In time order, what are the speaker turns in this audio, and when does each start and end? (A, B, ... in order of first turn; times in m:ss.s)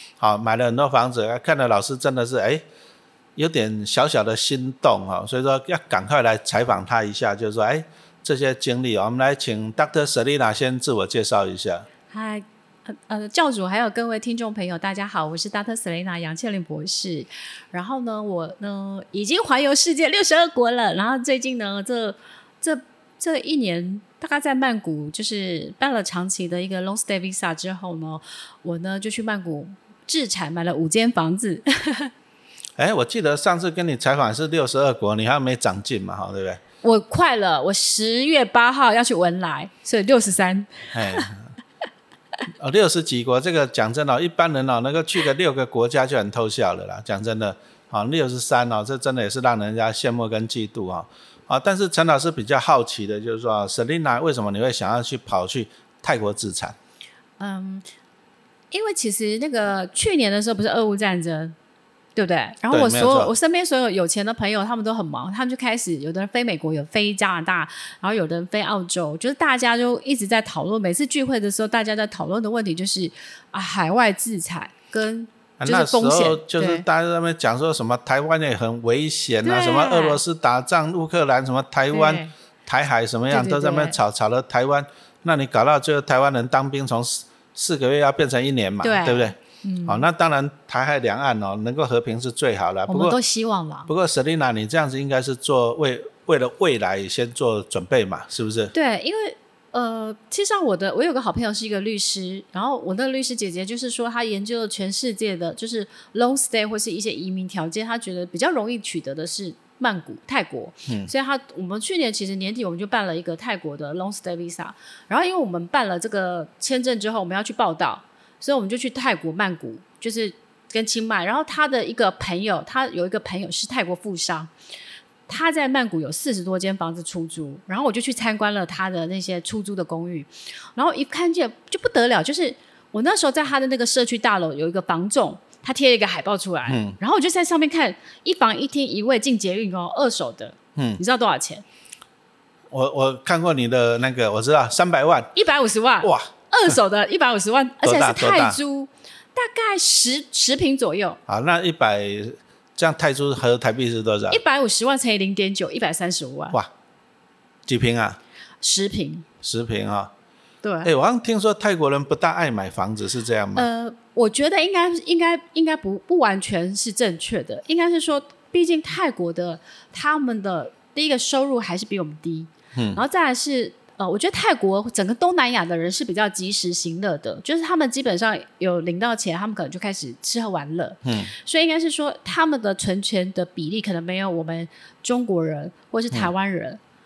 0:00.2-0:02.6 A
0:03.4-0:11.9 A
0:12.1-0:32.1 B
0:32.8-0:36.6 A
0:36.8-0:41.3 B
0:40.9-0:41.5 A
0:42.6-0:56.8 A
0:57.4-0:57.9 B
0:58.7-1:01.6 B
1:02.2-1:16.8 B
1:02.7-1:03.3 A
1:15.6-1:33.2 A
1:19.4-1:20.2 B
1:21.9-1:22.3 B
1:23.3-1:24.0 B
1:28.8-1:30.1 B
1:32.9-1:33.9 B
1:33.9-1:38.7 A
1:38.7-2:04.5 B
2:05.3-2:21.6 B
2:16.7-2:17.0 A
2:22.7-2:25.3 A
2:25.4-2:31.2 B
2:26.0-2:26.7 A
2:27.8-2:28.6 A
2:31.3-2:34.4 A
2:34.3-2:36.6 B
2:37.7-2:38.2 A
2:38.6-2:39.2 B
2:39.4-2:40.1 A
2:40.6-2:40.9 B
2:40.8-2:43.7 A
2:43.6-3:06.8 B
2:52.8-2:53.0 A
3:01.0-3:01.3 A